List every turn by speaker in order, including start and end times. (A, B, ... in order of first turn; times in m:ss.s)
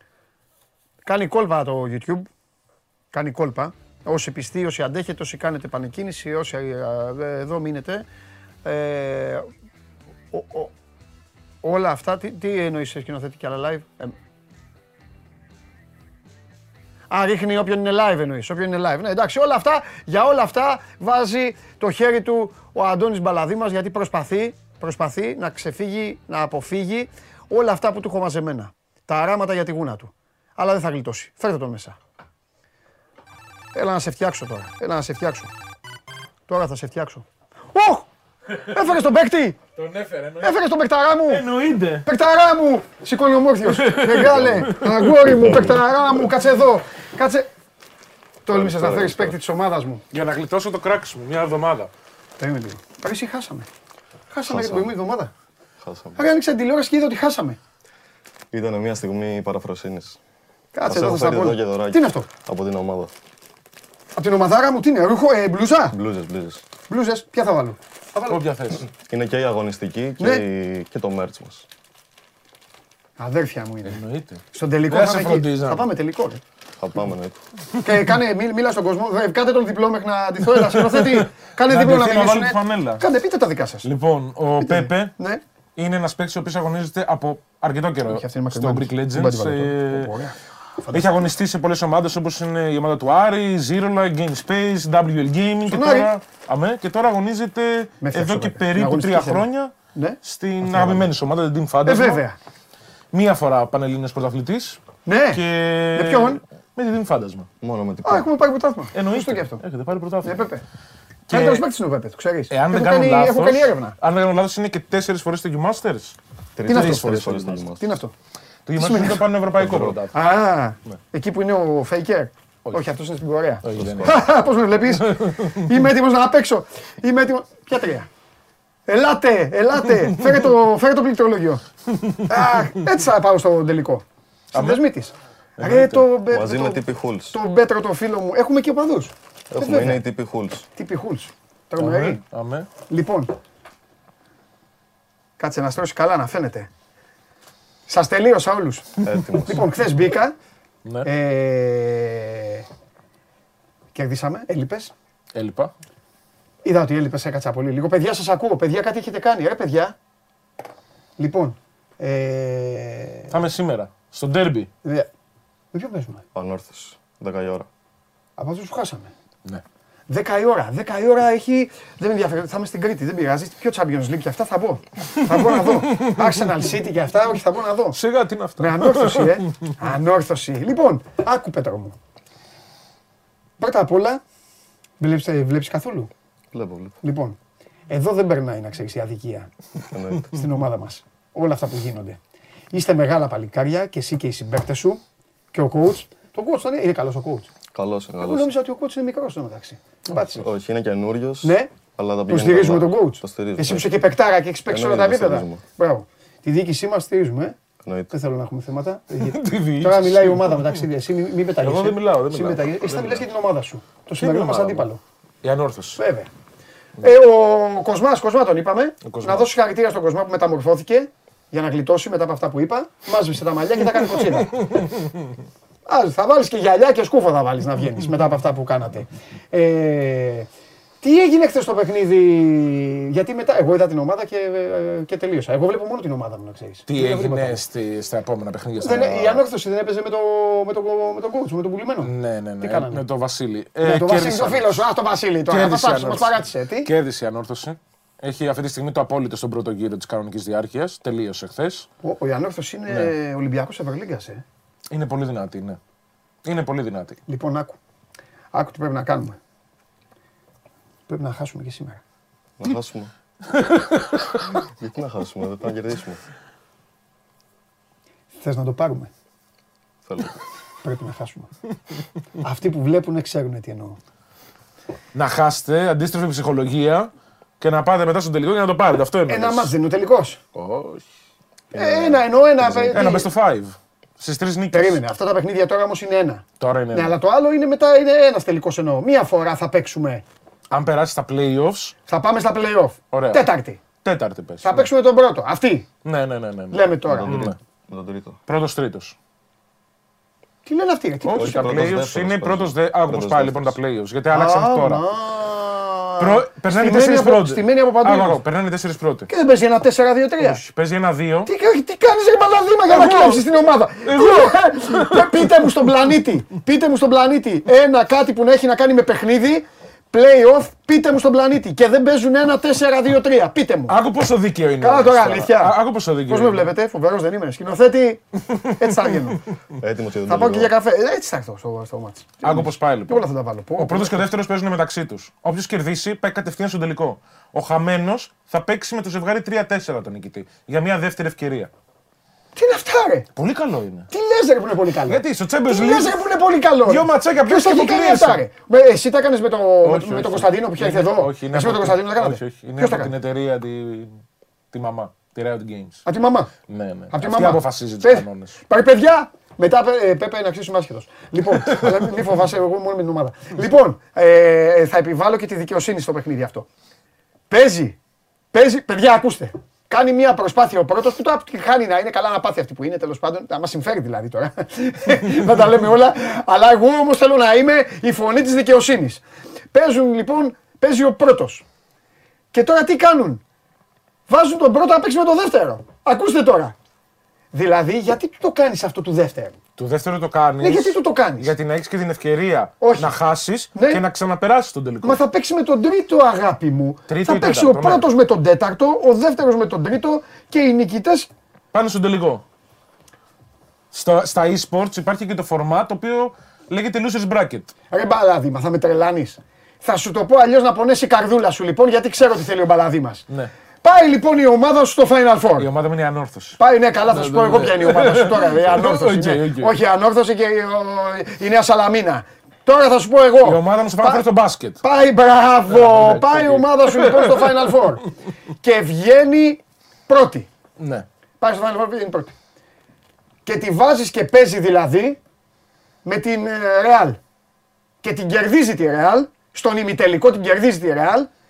0:01.0-0:02.3 A
0:03.1-0:08.0 A
0:08.6-0:09.5 A
0:10.3-0:10.7 A
0:11.6-0:14.1 A
0:17.1-0:32.0 A
0:33.7-0:35.5 A
0:36.5-0:38.1 A
0:38.7-0:39.6 A
0:39.8-0:40.6 B
0:40.4-0:41.5 A
0:41.3-0:42.0 B
0:42.0-0:47.5 A
0:43.6-0:45.8 B
0:48.4-0:50.0 A
0:48.5-0:49.4 C
0:50.1-0:51.9 B
0:52.4-0:53.7 A
0:54.3-0:55.3 A
0:54.5-0:55.0 C
0:55.8-0:56.2 C
0:56.2-0:57.6 A
0:58.5-1:00.2 C
1:00.7-1:02.3 A
1:00.9-1:03.1 C
1:04.2-1:06.0 A
1:05.9-1:06.6 C
1:06.9-1:08.4 A
1:08.3-1:08.8 B
1:08.9-1:11.7 C
1:13.2-1:14.0 A
1:13.8-1:15.9 B
1:14.5-1:16.4 A
1:16.8-1:17.4 C
1:17.8-1:23.9 A
1:20.6-1:23.0 B
1:23.8-1:25.1 B
1:24.6-1:25.4 A
1:25.8-1:30.3 B
1:28.1-1:31.3 A
1:30.9-1:42.2 B
1:35.7-1:36.1 A
1:38.0-1:41.0 A
1:41.8-1:42.4 A
1:43.1-1:47.5 B
1:45.1-1:45.4 A
1:45.9-1:46.4 A
1:47.6-1:48.3 C
1:48.0-1:49.6 A
1:48.9-1:50.5 B
1:50.2-1:50.6 A
1:51.3-1:54.0 A
1:51.3-1:51.6 B
1:52.5-1:57.7 B
1:56.6-1:57.9 C
1:56.7-1:57.2 A
1:57.8-1:58.1 A
1:58.7-2:00.1 B
1:58.8-1:59.2 A
1:59.6-2:00.0 C
2:00.1-2:08.1 A
2:03.6-2:04.2 B
2:03.7-2:04.2 C
2:05.1-2:05.7 B
2:08.9-2:11.6 A
2:12.2-2:20.0 A
2:14.5-2:14.8 B
2:15.6-2:16.1 B
2:16.3-2:17.4 C
2:19.5-2:20.7 C
2:20.7-2:22.2 A
2:21.8-2:22.7 B
2:22.9-2:23.3 A
2:25.4-2:26.7 A
2:27.9-2:30.4 A
2:29.1-2:29.6 C
2:31.0-2:32.6 A
2:33.9-2:34.9 A
2:35.4-2:35.7 B
2:36.6-2:40.0 A
2:41.2-2:43.3 A
2:43.3-2:44.7 B
2:45.7-2:46.2 A
2:46.4-2:47.7 C
2:48.4-2:49.1 A
2:50.1-2:58.0 A
2:55.7-2:56.4 B
2:57.9-2:59.7 B
2:58.6-3:02.0 A
3:03.6-3:04.2 A
3:05.0-3:06.1 A
3:06.5-3:07.0 C
3:07.0-3:07.4 A
3:07.9-3:09.5 A
3:09.9-3:10.3 C
3:10.3-3:12.2 A
3:12.7-3:15.0 A
3:15.5-3:17.5 A
3:17.7-3:18.5 C
3:18.2-3:20.4 A
3:20.4-3:23.9 C
3:21.4-3:21.7 A
3:22.3-3:27.6 A
3:24.7-3:25.6 C
3:27.8-3:28.1 C
3:28.1-3:35.0 A
3:29.2-3:30.8 B
3:31.6-3:33.3 B
3:34.2-3:34.9 B
3:35.4-3:36.0 B
3:36.0-3:36.3 A
3:37.0-3:44.5 A
3:39.0-3:39.5 B
3:44.0-3:45.1 B
3:45.9-3:50.5 A
3:51.0-3:57.6 A
3:56.9-3:59.4 B
3:58.8-4:03.0 A
4:02.0-4:04.9 B
4:03.8-4:06.9 A
4:05.5-4:11.9 B
4:12.0-4:14.4 A
4:14.9-4:15.8 B
4:16.4-4:17.2 B
4:17.3-4:17.8 A
4:18.5-4:19.4 A
4:21.1-4:22.0 A
4:22.6-4:23.1 C
4:23.5-4:24.1 B
4:24.8-4:26.2 C
4:28.4-4:29.1 A
4:30.0-4:30.3 C
4:30.8-4:31.5 A
4:32.4-4:34.0 A
4:35.1-4:39.7 B
4:39.3-4:40.4 A
4:40.6-4:41.1 B
4:41.7-4:43.1 C
4:41.7-4:43.3 A
4:42.9-4:45.0 B
4:44.7-4:50.2 A
4:46.6-4:47.1 B
4:50.7-4:52.0 B
4:52.1-4:53.8 A
4:53.1-4:53.4 B
4:54.0-4:54.9 B
4:54.6-4:55.9 A
4:56.0-4:57.6 B
4:56.7-4:57.5 A
4:57.2-4:58.4 C
4:58.4-4:59.2 B
5:00.6-5:01.9 A
5:01.2-5:05.0 B
5:01.4-5:03.7 C
5:04.3-5:08.4 A
5:06.2-5:09.3 B
5:09.3-5:10.6 A
5:10.4-5:11.5 B
5:11.4-5:24.0 A
5:12.9-5:13.5 B
5:14.0-5:15.9 B
5:23.9-5:26.7 B
5:24.8-5:28.2 A
5:28.6-5:29.1 B
5:28.7-5:29.4 A
5:29.8-5:30.7 C
5:30.3-5:34.2 A
5:32.4-5:33.2 B
5:33.8-5:41.7 B
5:42.6-5:43.3 A
5:43.4-5:44.1 B
5:44.1-5:53.1 A
5:45.0-5:46.3 B
5:46.8-5:48.4 B
5:49.8-5:54.2 B
5:54.7-5:56.0 B
5:56.0-5:56.5 A
5:56.7-5:58.6 B
5:57.1-6:06.7 A
6:01.5-6:02.0 B
6:07.5-6:08.0 A
6:08.5-6:21.6 A
6:22.5-6:23.4 A
6:24.3-6:26.7 A
6:27.5-6:29.6 A
6:29.8-6:35.2 B
6:30.6-6:31.5 A
6:32.8-6:33.2 A
6:33.7-6:34.0 A
6:35.0-6:41.3 A
6:37.1-6:38.1 B
6:41.7-6:42.4 B
6:43.9-6:47.7 B
6:47.9-6:53.2 A
6:53.8-6:55.7 A
6:55.6-6:59.7 B
6:56.6-7:04.3 A
7:03.4-7:04.8 B
7:04.8-7:08.1 A
7:05.7-7:07.8 B
7:08.6-7:10.5 A
7:10.8-7:11.1 B
7:11.4-7:12.3 A
7:13.4-7:15.2 A
7:16.0-7:17.2 A
7:18.0-7:21.3 A